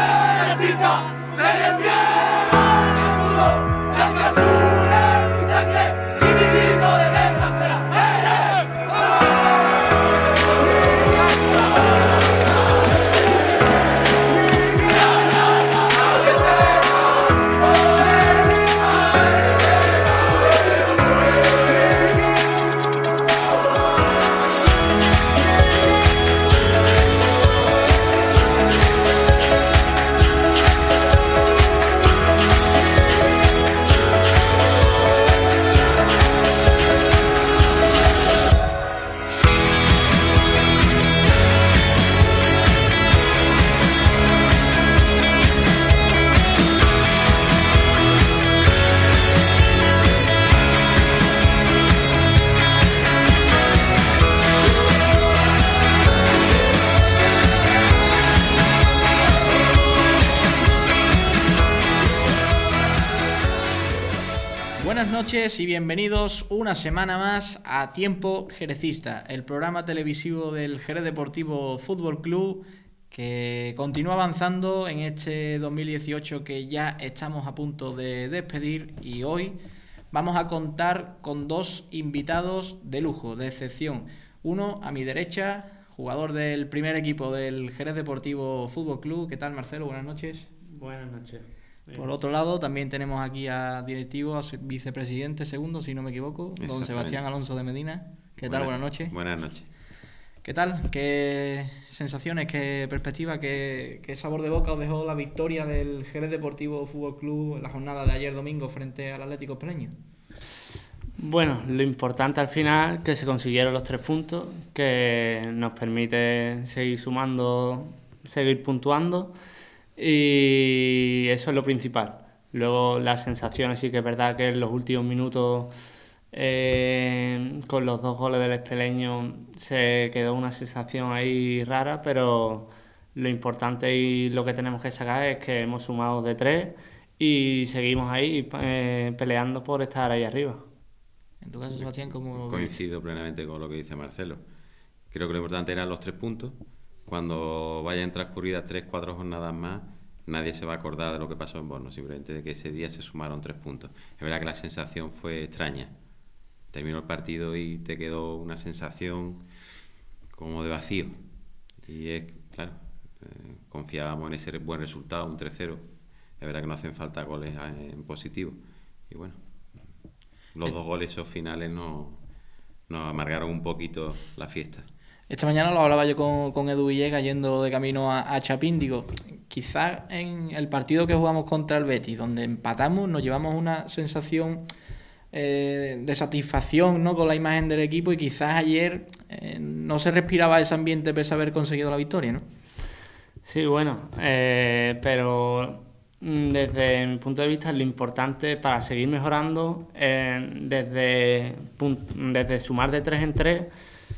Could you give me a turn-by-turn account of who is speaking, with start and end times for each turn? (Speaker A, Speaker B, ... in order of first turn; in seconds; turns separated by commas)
Speaker A: 64.8-79.6, Speaker A: 80.1-90.5, Speaker B: 90.7-92.1, Speaker A: 91.9-99.1, Speaker C: 96.6-97.2, Speaker C: 98.4-99.7, Speaker A: 100.4-109.9, Speaker B: 111.2-119.3, Speaker B: 120.0-125.7, Speaker B: 126.3-140.6, Speaker A: 141.4-142.8, Speaker C: 141.7-144.4, Speaker C: 145.1-155.9, Speaker C: 156.7-159.4, Speaker C: 160.3-161.2, Speaker C: 161.8-165.9, Speaker C: 166.4-169.4, Speaker C: 170.5-172.2, Speaker C: 172.9-174.9, Speaker A: 175.3-184.6, Speaker A: 185.3-192.4, Speaker B: 193.4-203.7